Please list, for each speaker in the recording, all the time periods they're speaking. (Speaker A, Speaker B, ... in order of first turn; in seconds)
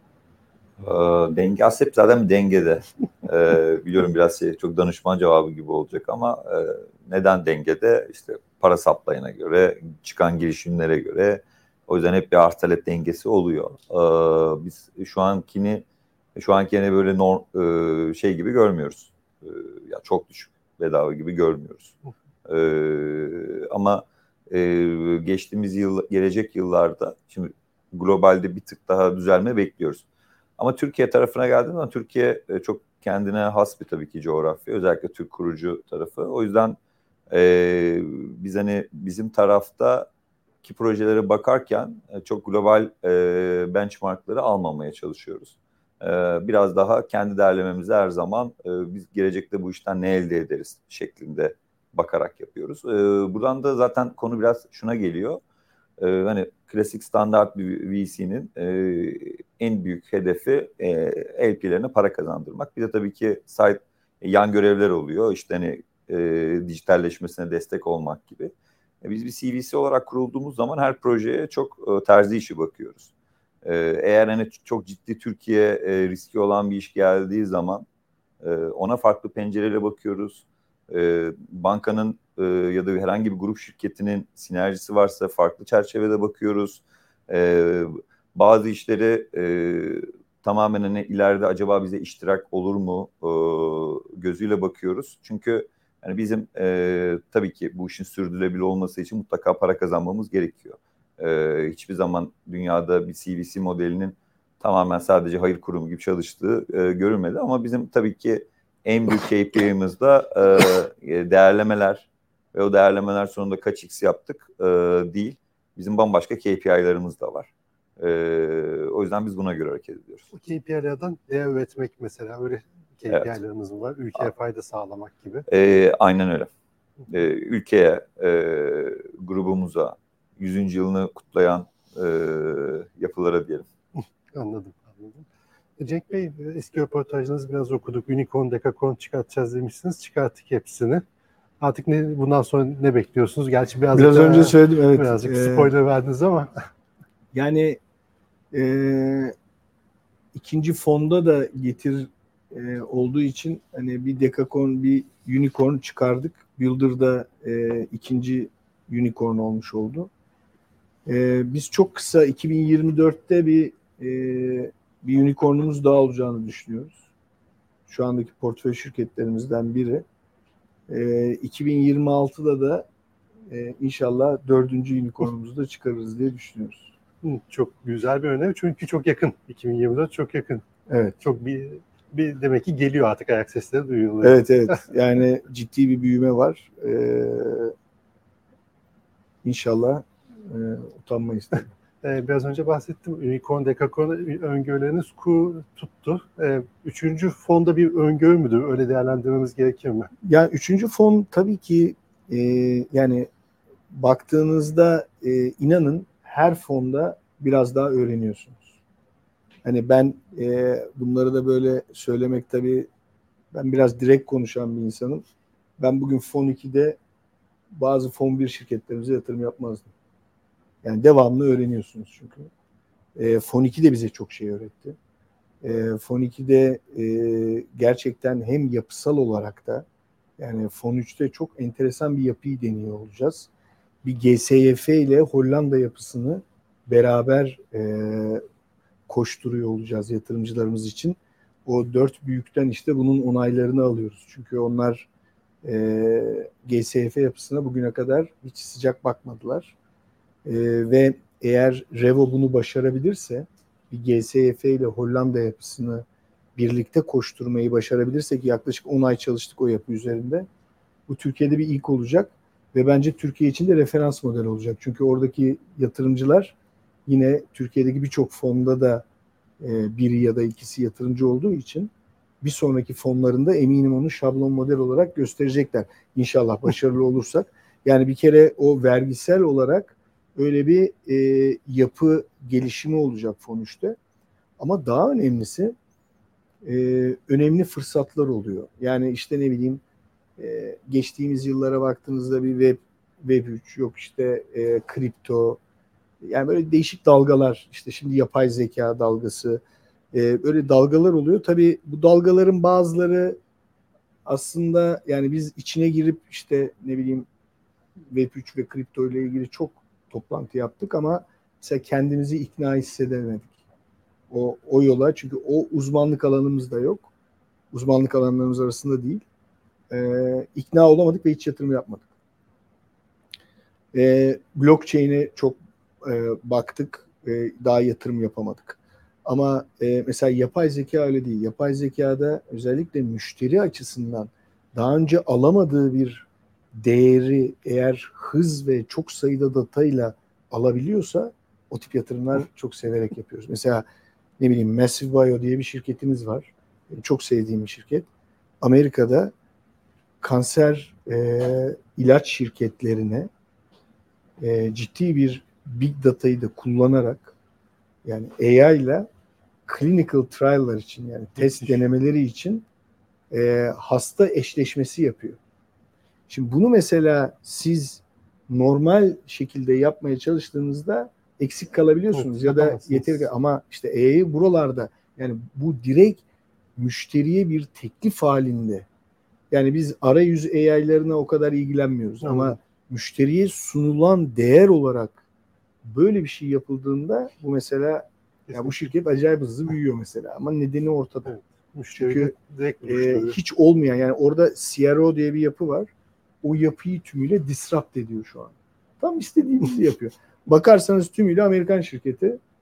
Speaker A: 0.8-15.8, 16.4-30.1, 30.6-36.8, 37.3-40.1, 40.6-55.4, 56.0-73.1, 73.6-77.8, 78.4-120.3, 125.5-126.5, 127.1-133.7
Speaker B: 120.3-125.5, 134.3-135.3, 135.8-141.0, 141.6-146.7, 177.2-180.7, 181.2-184.8, 192.0-200.1, 361.4-361.8, 372.4-373.2, 382.2-382.6, 391.3-393.4
Speaker C: 143.9-145.7, 147.3-147.8, 148.5-149.3, 150.3-160.1, 161.1-167.0, 167.9-170.1, 170.9-172.9, 173.5-176.9, 180.9-181.2, 184.2-187.7, 189.4-191.7, 200.2-203.3, 203.9-208.7, 209.6-212.9, 213.5-215.2, 215.8-217.0, 217.7-219.9, 220.8-222.5, 223.2-225.0, 225.6-229.8, 230.4-233.5, 234.0-238.4, 239.1-245.1, 245.6-249.8, 250.4-256.1, 256.6-260.5, 261.1-266.5, 267.1-269.1, 269.6-284.0, 284.6-285.8, 286.6-289.8, 290.4-295.6, 296.2-299.6, 300.1-303.4, 304.2-307.3, 308.1-313.6, 314.3-317.1, 317.7-319.2, 319.9-322.1, 323.9-343.9, 344.4-348.1, 348.6-349.3, 350.2-353.3, 354.4-357.3, 358.1-359.1, 359.7-362.7, 363.3-365.4, 366.3-376.2, 376.8-378.9, 379.5-385.2, 385.8-391.4, 391.9-395.9, 396.4-402.4